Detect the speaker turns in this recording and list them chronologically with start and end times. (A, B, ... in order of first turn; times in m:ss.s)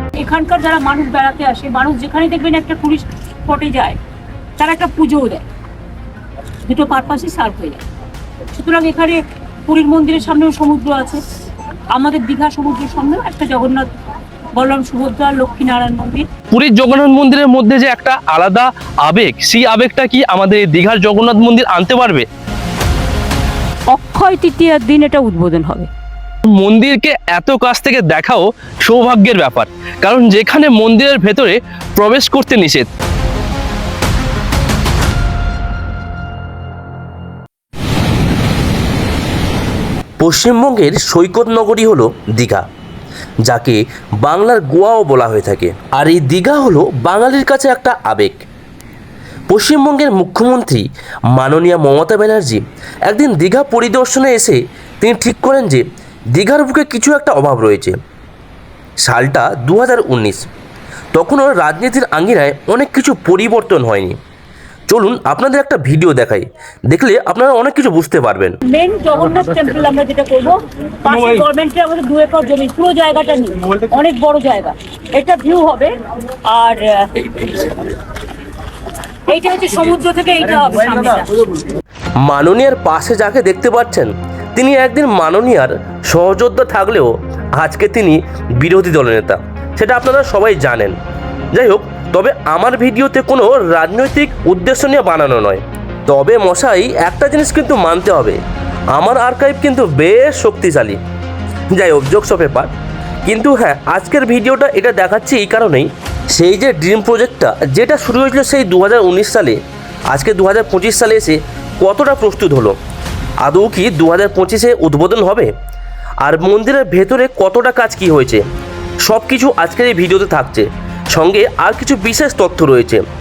0:00.1-0:04.0 A
0:04.6-0:05.4 A
0:06.7-0:07.8 A
0:08.5-0:11.2 A
0:11.9-0:13.9 A
0:14.5-0:16.3 A
0:16.5-0:22.3 B
0:23.9-0:25.9 A
0:26.4-0:32.9 B
0:40.2-0:42.6 C
0:43.4-0:48.4 C
0:49.5-0:58.0 C
0:59.0-1:00.4 C
1:01.1-1:04.2 C
1:04.9-1:08.6 C
1:08.6-1:15.9 A
1:16.5-1:17.9 A
1:19.3-1:21.4 A
1:22.2-1:31.0 C
1:31.5-1:38.4 C
1:38.9-1:41.0 C
1:41.7-1:42.7 C
1:43.2-1:49.6 C
1:50.1-1:52.8 C
1:53.4-1:55.5 C
1:56.2-1:58.4 C
1:59.0-2:03.0 C